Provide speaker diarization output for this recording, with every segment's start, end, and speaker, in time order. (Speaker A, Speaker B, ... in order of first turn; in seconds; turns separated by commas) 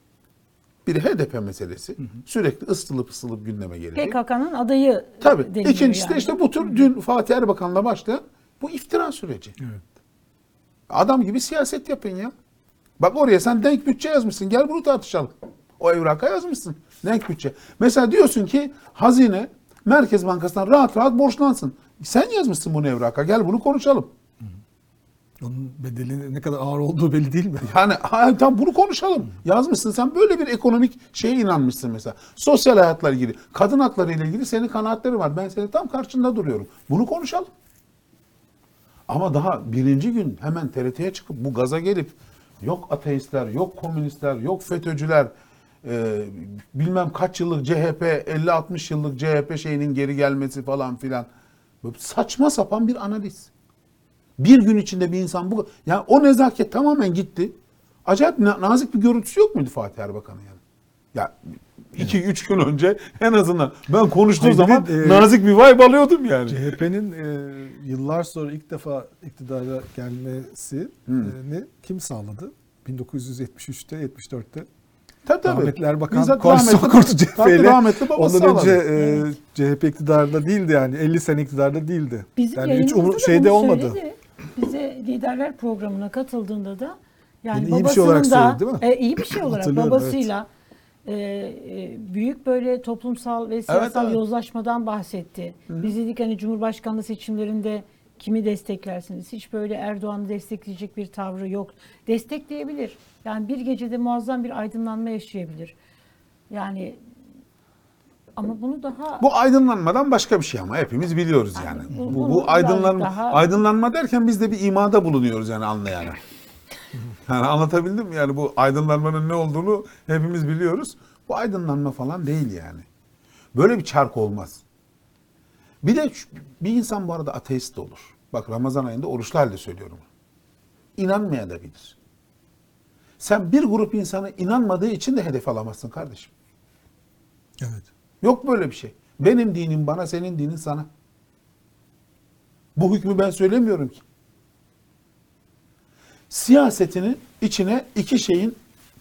Speaker A: 0.8-4.2, Speaker B: 4.0-6.8, Speaker A: 5.2-9.5, Speaker C: 9.6-9.8, Speaker A: 10.9-12.3, Speaker A: 13.0-24.1, Speaker C: 25.4-27.7, Speaker A: 27.6-37.5, Speaker A: 39.1-45.3, Speaker A: 45.8-51.3, Speaker A: 51.8-53.5, Speaker A: 54.4-57.5, Speaker A: 58.0-60.6, Speaker A: 61.1-66.7, Speaker C: 64.4-65.3, Speaker C: 66.3-74.7, Speaker A: 71.1-71.3, Speaker A: 75.2-78.8, Speaker C: 75.4-84.0, Speaker B: 78.9-79.3, Speaker B: 82.3-90.5, Speaker C: 87.5-90.3, Speaker B: 91.0-105.7, Speaker A: 93.7-94.2, Speaker A: 95.7-95.9, Speaker B: 106.5-107.0, Speaker B: 108.3-109.2, Speaker A: 109.2-116.2, Speaker B: 111.5-113.5, Speaker A: 117.2-122.8, Speaker A: 123.5-124.6, Speaker A: 125.8-130.1, Speaker A: 131.0-131.9, Speaker A: 133.2-136.3, Speaker C: 137.6-137.8, Speaker A: 138.2-140.9, Speaker A: 142.8-144.0, Speaker A: 146.3-148.6